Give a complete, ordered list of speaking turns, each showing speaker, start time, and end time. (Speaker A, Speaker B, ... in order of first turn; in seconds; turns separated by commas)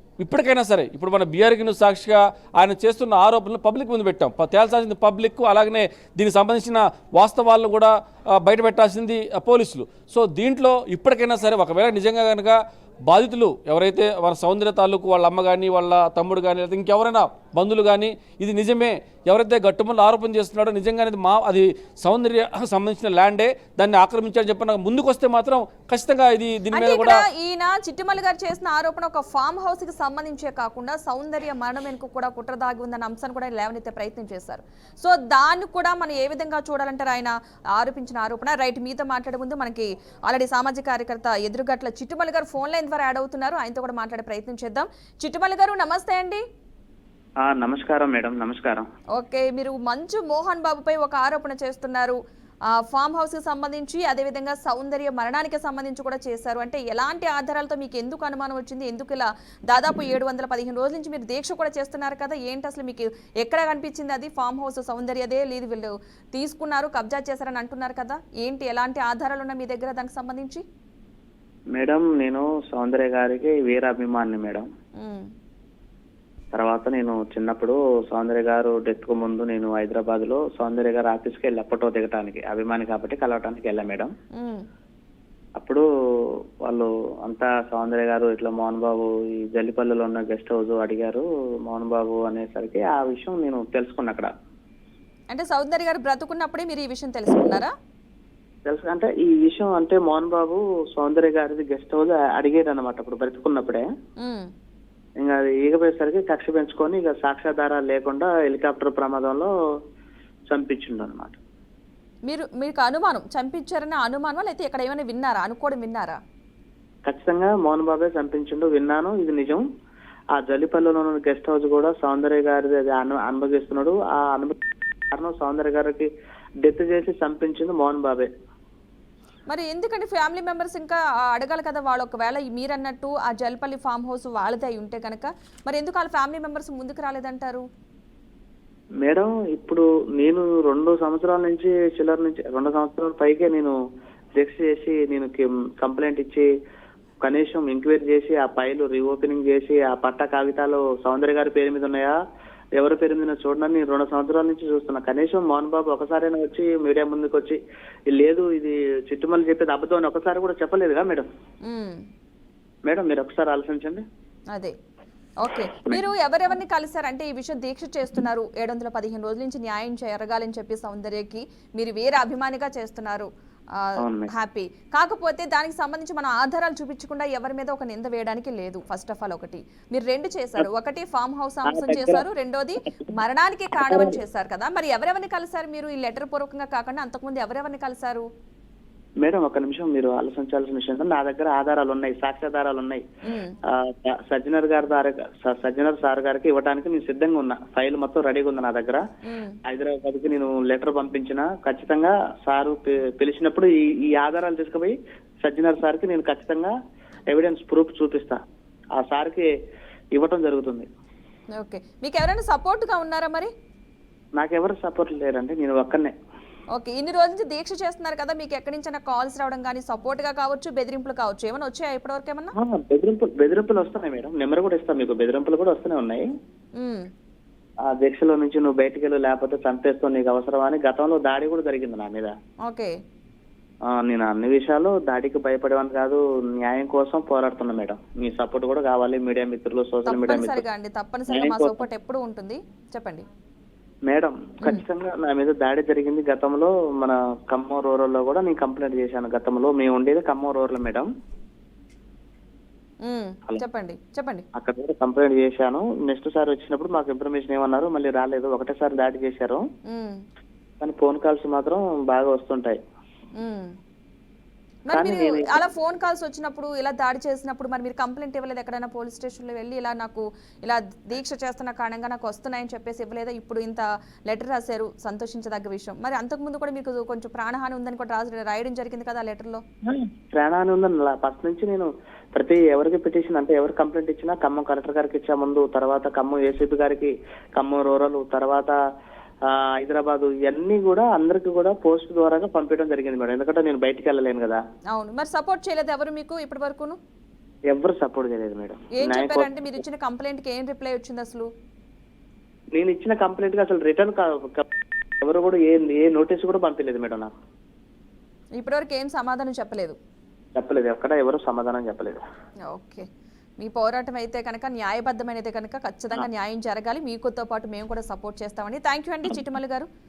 Speaker A: 0.2-27.2, Speaker B: 26.7-46.4, Speaker C: 47.5-48.8, Speaker B: 49.2-52.2, Speaker B: 52.7-70.6, Speaker C: 71.8-74.7, Speaker B: 75.0-75.3, Speaker C: 76.5-84.1, Speaker B: 84.4-84.6, Speaker C: 85.6-85.8, Speaker C: 86.7-94.3, Speaker B: 95.3-97.7, Speaker C: 98.7-103.9, Speaker B: 104.2-104.5, Speaker C: 105.2-109.5, Speaker C: 110.5-111.4, Speaker B: 112.3-116.2, Speaker C: 117.1-119.7, Speaker C: 120.4-124.6, Speaker C: 125.1-126.1, Speaker C: 126.6-128.3, Speaker B: 129.5-137.7, Speaker C: 139.0-143.7, Speaker C: 144.4-146.5, Speaker C: 147.2-152.2, Speaker C: 152.8-157.6, Speaker C: 158.1-161.3, Speaker B: 161.7-162.0, Speaker C: 162.9-164.0, Speaker B: 165.4-188.3, Speaker C: 174.0-174.3, Speaker C: 181.7-182.2, Speaker C: 183.7-184.2, Speaker C: 189.2-193.0, Speaker B: 193.2-193.5, Speaker C: 193.7-199.0, Speaker B: 199.2-199.6, Speaker C: 199.7-206.7, Speaker C: 207.3-208.4, Speaker C: 209.0-209.5, Speaker C: 210.2-210.9, Speaker B: 211.6-213.5, Speaker C: 214.4-216.1, Speaker B: 216.8-222.5, Speaker C: 222.6-226.3, Speaker B: 226.8-227.1, Speaker C: 228.0-232.3, Speaker B: 232.7-232.9, Speaker C: 233.9-240.6, Speaker B: 240.1-243.2, Speaker C: 241.3-241.8, Speaker C: 244.1-251.1, Speaker B: 253.1-254.4, Speaker C: 254.6-259.6, Speaker B: 259.9-260.2, Speaker C: 260.8-262.8, Speaker B: 263.4-263.7, Speaker B: 264.9-279.6, Speaker C: 264.9-265.5, Speaker C: 279.9-288.8, Speaker C: 289.5-294.6, Speaker B: 294.9-297.0, Speaker C: 297.7-299.7, Speaker B: 299.0-301.5, Speaker C: 302.7-304.7, Speaker C: 305.2-307.3, Speaker B: 308.6-310.0, Speaker C: 310.6-312.2, Speaker B: 312.7-313.1, Speaker B: 313.6-319.9